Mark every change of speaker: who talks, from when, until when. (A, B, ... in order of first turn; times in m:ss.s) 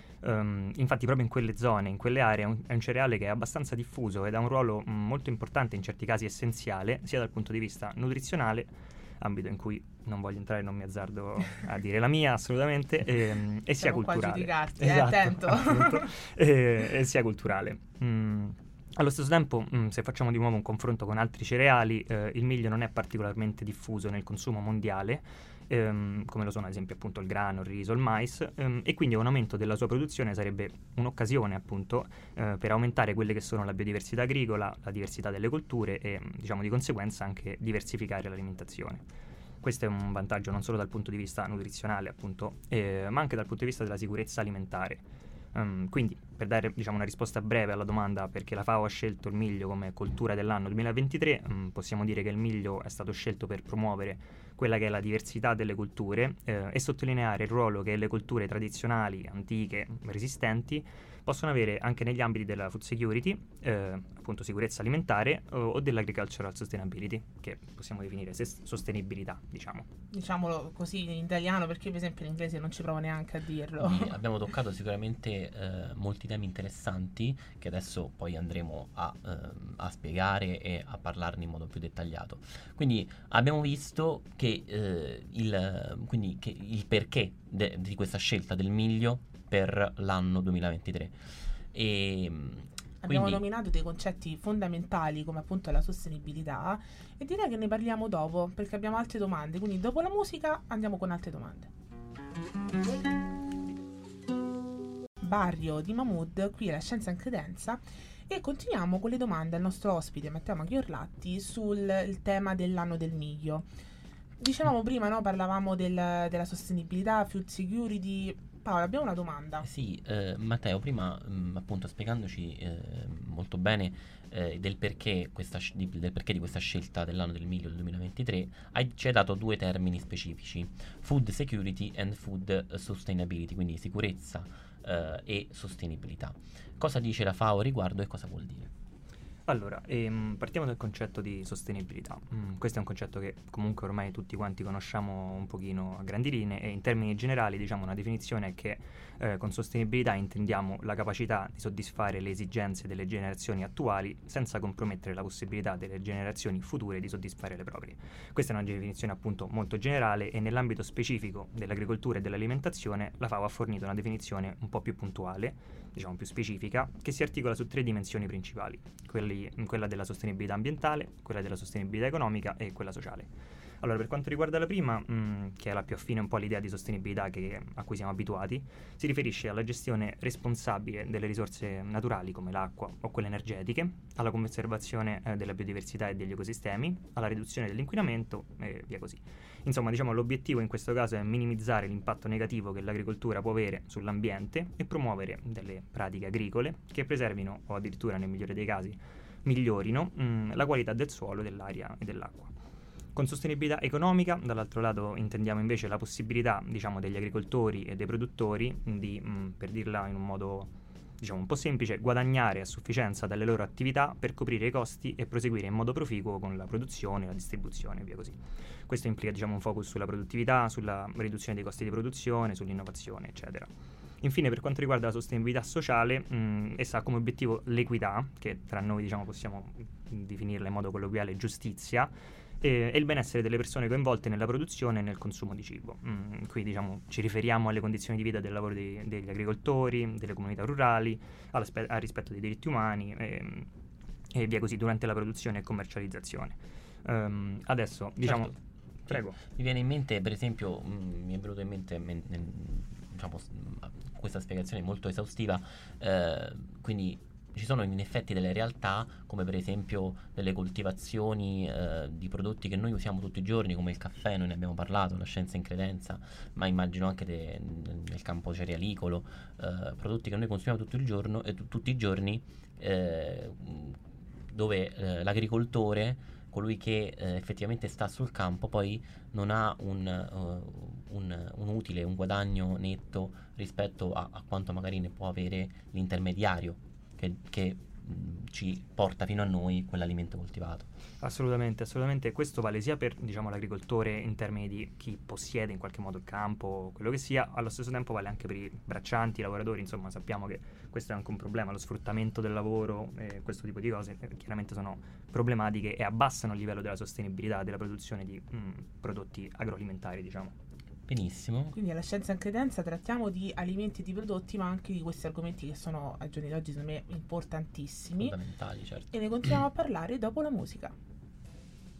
0:00.2-0:39.0 A
0:13.8-0:16.1 B
0:39.6-0:45.0 A
0:45.5-1:09.9 A
1:10.1-1:14.2 B
1:13.8-1:31.2 C
1:31.7-1:33.4 C
1:33.0-1:41.7 B
1:45.2-1:53.7 B
1:54.4-1:59.7 B
1:59.6-2:18.7 C
2:19.5-2:53.3 A
2:53.8-3:22.5 A
3:23.1-3:43.7 A
3:44.2-4:03.7 A
4:04.3-4:08.5 A
4:08.2-4:08.5 C
4:09.1-4:09.4 A
4:09.1-4:50.9 C
4:51.2-5:10.5 A
5:11.1-5:11.8 C
5:11.7-5:18.4 B
5:18.2-5:19.1 C
5:19.1-5:20.9 B